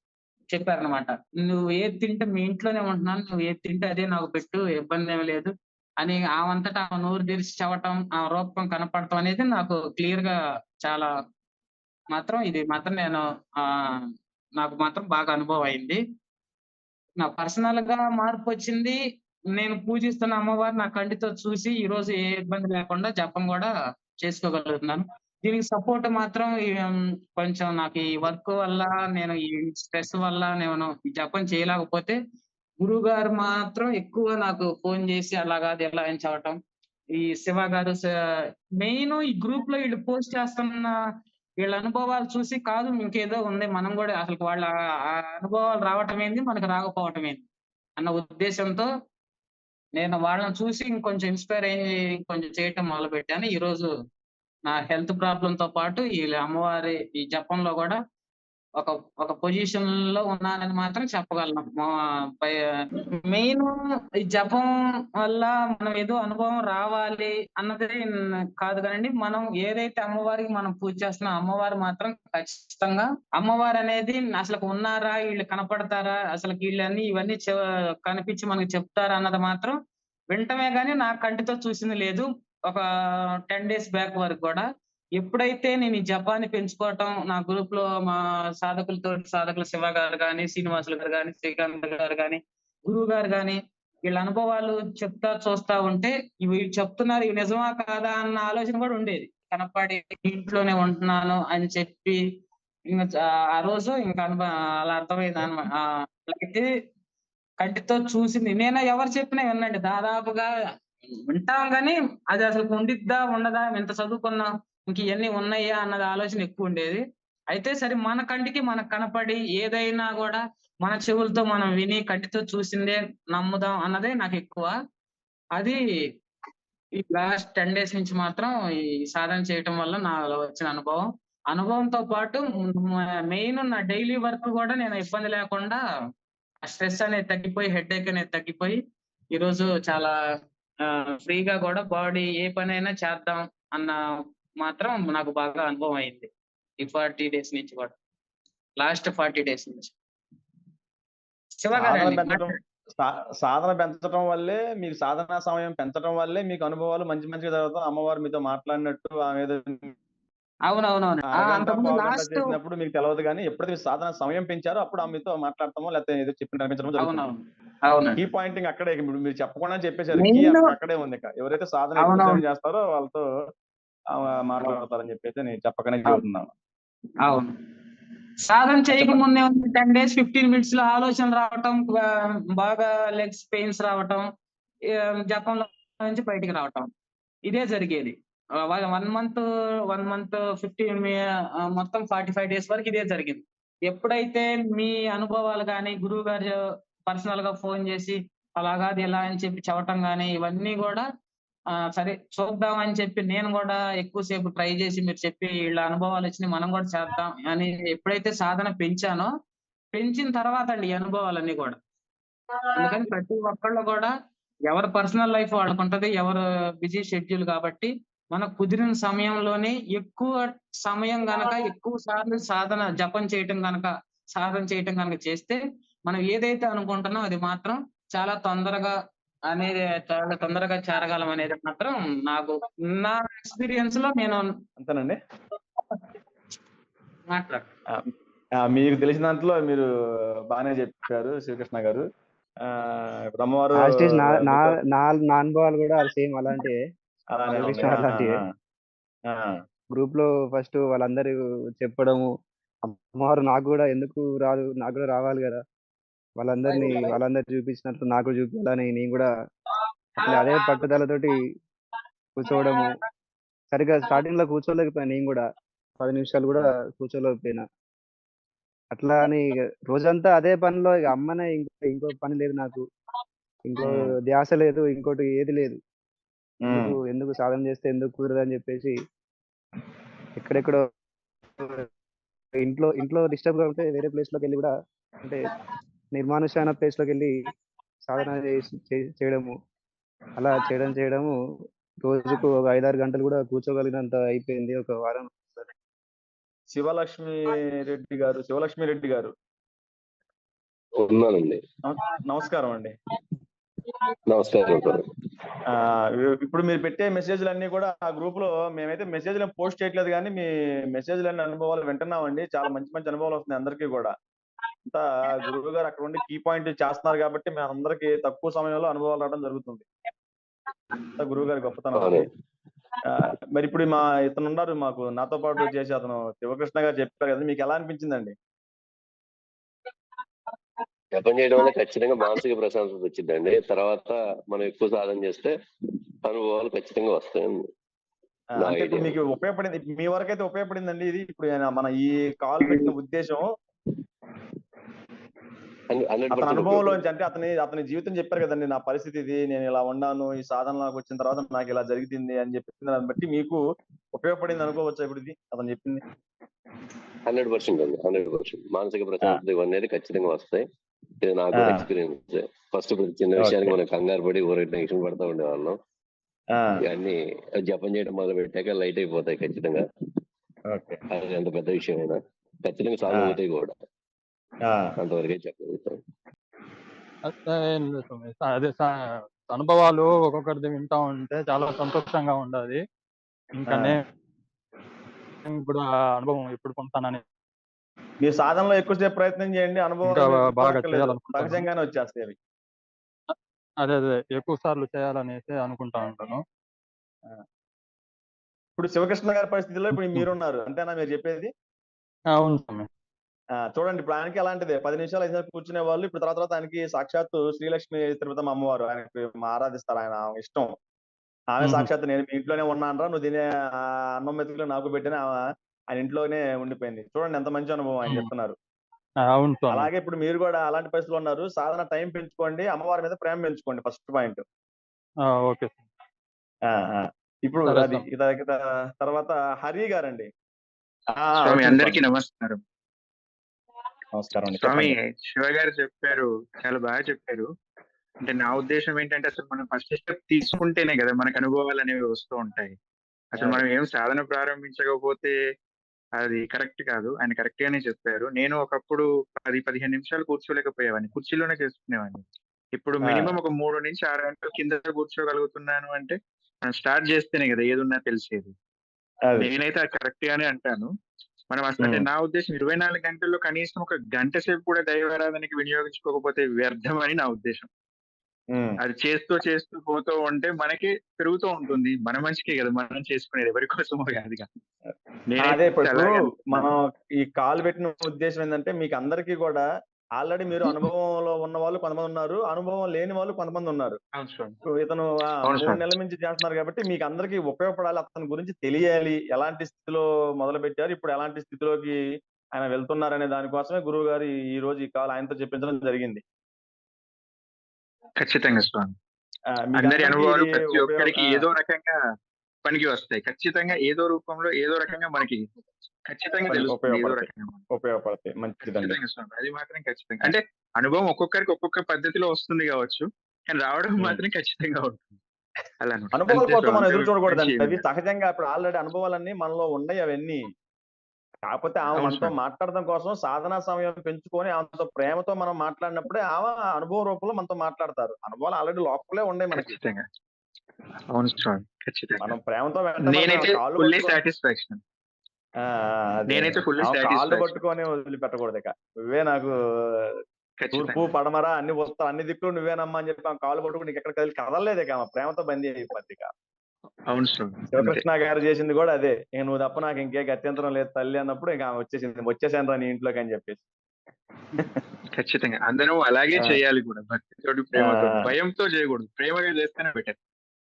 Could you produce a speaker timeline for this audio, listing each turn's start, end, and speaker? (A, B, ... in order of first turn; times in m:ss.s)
0:00.5-0:11.1 A
0:12.1-0:13.8 A
0:14.6-0:16.0 A
0:17.2-0:19.0 A
0:19.5-0:23.7 A
0:24.2-0:32.2 A
0:32.8-0:36.6 A
0:37.1-0:38.1 A
0:38.8-0:40.9 A
0:41.6-0:47.4 A
0:48.0-0:48.9 A
0:50.0-0:53.9 A
0:54.7-0:58.0 A
0:58.8-1:19.8 A
1:20.3-1:22.8 A
1:23.5-1:42.2 A
1:42.9-1:46.7 A
1:47.6-1:50.5 A
1:51.3-2:04.7 A
2:07.0-2:08.5 A
2:09.1-2:15.8 A
2:16.6-2:18.8 A
2:19.3-2:20.1 A
2:20.8-2:24.0 A
2:24.6-2:26.3 A
2:26.8-2:27.9 A
2:28.8-2:29.9 A
2:31.6-2:32.5 A
2:31.8-2:39.9 B
2:40.7-2:42.5 A
2:41.3-2:47.2 B
2:47.0-2:48.2 A
2:48.2-2:53.2 B
2:50.2-2:50.7 A
2:52.0-2:52.4 A
2:54.1-2:56.5 B
2:57.2-2:57.6 A
2:58.4-3:04.2 A
2:58.9-2:59.2 B
3:04.9-3:06.9 A
3:07.5-3:16.6 A
3:17.1-3:21.0 A
3:21.9-3:29.3 A
3:29.9-3:31.8 A
3:32.7-3:34.1 A
3:34.7-3:48.9 A
3:49.5-3:54.5 A
3:54.8-3:55.2 B
3:57.3-3:57.7 A
3:58.6-3:59.9 B
4:00.5-4:02.1 B
4:02.6-4:04.7 B
4:03.8-4:06.8 C
4:07.3-4:08.5 B
4:07.4-4:08.4 C
4:09.3-4:09.6 B
4:09.9-4:12.3 C
4:12.8-4:15.6 C
4:16.4-4:19.3 C
4:20.2-4:21.4 C
4:22.4-4:22.9 C
4:23.7-4:25.4 C
4:26.0-4:27.6 C
4:28.9-4:32.8 C
4:33.7-4:35.8 C
4:33.8-4:34.1 B
4:36.6-4:37.0 B
4:36.7-4:38.9 C
4:40.4-4:40.8 C
4:41.6-4:41.9 C
4:42.6-4:44.7 C
4:46.1-4:47.5 C
4:48.1-4:49.5 C
4:50.4-4:51.3 C
4:52.0-4:55.7 C
4:56.7-4:59.3 B
5:01.0-5:01.6 D
5:01.9-5:03.0 B
5:04.3-5:05.1 D
5:05.7-5:14.1 B
5:14.9-5:19.9 B
5:21.2-5:22.3 B
5:21.9-5:22.3 D
5:23.0-5:28.3 B
5:31.1-5:35.6 D
5:36.2-5:37.7 D
5:38.6-5:39.2 D
5:38.6-5:43.5 B
5:42.6-5:42.9 D
5:45.9-5:47.0 D
5:46.3-5:53.6 B
5:54.1-5:56.0 B
5:57.3-6:00.6 D
6:01.2-6:05.8 D
6:01.5-6:01.9 B
6:03.4-6:03.8 B
6:06.5-6:06.8 B
6:06.8-6:09.8 D
6:10.7-6:11.0 B
6:11.1-6:13.7 D
6:13.1-6:13.4 B
6:14.6-6:14.9 B
6:15.0-6:16.0 D
6:17.2-6:18.9 E
6:19.5-6:22.8 E
6:23.6-6:24.0 E
6:23.7-6:24.0 B
6:25.4-6:27.2 E
6:28.2-6:32.4 B
6:30.0-6:31.7 E
6:33.8-6:36.4 E
6:38.8-6:41.5 B
6:42.4-6:42.9 E
6:43.7-6:50.7 B
6:51.5-6:55.4 B
6:51.6-6:51.9 E
6:55.9-6:58.6 B
6:59.3-6:59.9 E
6:59.7-7:04.4 B
7:05.2-7:05.8 E
7:06.7-7:10.3 B
7:07.7-7:08.0 E
7:11.2-7:12.0 B
7:11.4-7:12.6 F
7:14.1-7:14.9 B
7:14.6-7:17.5 F
7:18.2-7:22.8 F
7:23.3-7:25.3 F
7:23.4-7:23.6 B
7:26.2-7:38.5 F
7:33.1-7:33.4 B
7:39.4-7:40.9 F
7:41.5-7:47.7 F
7:48.5-7:48.8 B
7:48.8-7:54.5 F
7:55.3-7:56.7 F
7:55.4-7:59.6 B
8:00.2-8:04.0 B
8:04.1-8:04.6 F
8:04.8-8:12.0 B
8:05.4-8:05.8 F
8:12.6-8:16.2 B
8:18.2-8:19.0 F
8:19.7-8:21.4 B
8:19.8-8:22.0 F
8:22.6-8:25.5 F
8:26.1-8:27.6 F
8:26.5-8:29.0 B
8:28.6-8:35.2 F
8:35.8-8:37.8 F
8:36.2-8:40.4 B
8:41.5-8:49.7 B
8:41.9-8:42.3 F
8:49.5-8:50.0 F
8:51.1-8:52.3 F
8:52.2-8:54.2 B
8:53.1-8:54.8 F
8:55.6-9:00.2 B
8:56.3-8:57.5 F
9:00.6-9:01.1 F
9:00.7-9:06.3 B
9:07.1-9:08.0 F
9:07.7-9:13.6 B
9:15.1-9:20.2 F